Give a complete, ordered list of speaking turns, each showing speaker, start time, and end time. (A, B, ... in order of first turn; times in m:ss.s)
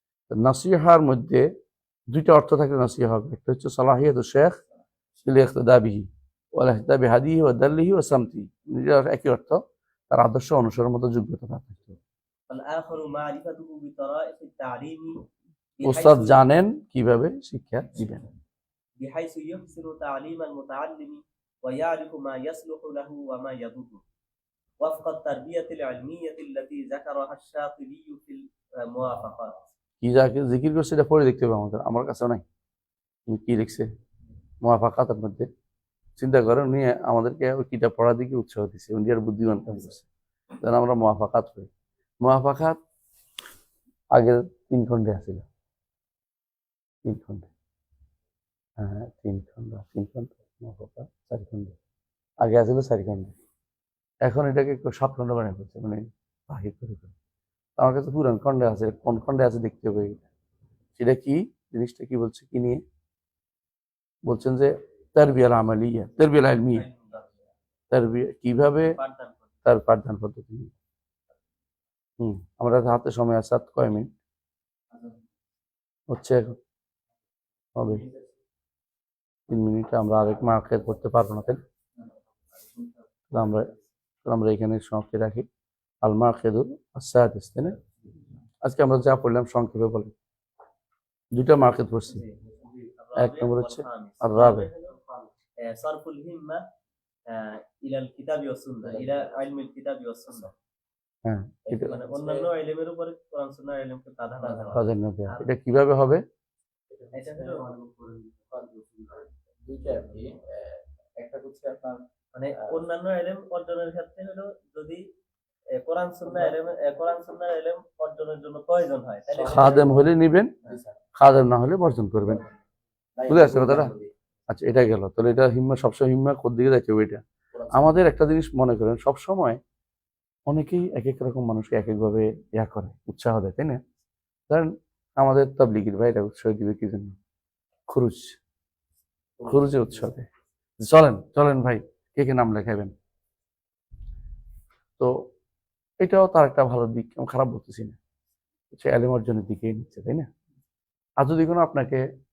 0:00.3-0:01.5 A
0:02.1-0:04.6 A
0:05.2-0:12.0 A
0:12.5-0:15.2 B
0:15.8-0:16.4 B
0:15.8-0:18.3 A
0:19.0-0:24.0 B
0:24.8-0:29.6 B
0:30.0-0:32.4 A
0:33.3-0:33.9 A
0:34.6-0:35.5 A
0:36.2-0:40.1 A
0:40.6-0:41.7 A
0:42.2-0:42.8 A
0:44.1-0:45.5 A
0:47.0-0:47.5 A
0:48.8-0:51.7 A
0:52.4-0:53.4 A
0:54.2-0:57.1 A
0:57.8-1:00.2 A
1:01.0-1:02.8 A
1:04.2-1:06.9 A
1:06.8-1:07.3 B
1:07.9-1:09.0 A
1:09.0-1:09.4 B
1:09.6-1:10.7 A
1:12.2-1:14.1 A
1:14.9-1:15.2 C
1:16.1-1:16.6 A
1:17.8-1:18.0 A
1:17.9-1:18.3 C
1:19.5-1:21.6 A
1:22.0-1:23.8 C
1:23.3-1:23.7 A
1:24.2-1:25.5 A
1:26.0-1:27.8 A
1:28.6-1:30.1 A
1:31.4-1:32.2 A
1:33.0-1:35.0 B
1:33.2-1:34.7 A
1:35.6-1:36.6 B
1:37.3-1:40.5 B
1:38.8-1:39.3 C
1:41.2-1:41.9 A
1:41.6-1:42.5 C
1:41.7-1:44.9 B
1:44.4-1:44.8 C
1:44.7-1:46.2 A
1:46.9-1:52.8 C
1:47.1-1:47.6 B
1:52.3-1:55.1 B
1:55.8-2:00.0 B
1:56.3-1:56.5 C
1:59.3-2:00.0 C
1:59.4-2:00.5 A
2:00.6-2:01.0 C
2:01.2-2:02.4 A
2:03.2-2:04.1 C
2:03.3-2:03.9 A
2:04.5-2:09.6 A
2:07.5-2:08.0 C
2:10.5-2:13.8 A
2:14.5-2:17.2 A
2:17.9-2:18.4 A
2:19.4-2:20.1 C
2:19.4-2:20.3 A
2:20.8-2:22.9 A
2:25.0-2:25.3 A
2:26.0-2:28.0 A
2:28.7-2:30.3 A
2:31.2-2:32.0 A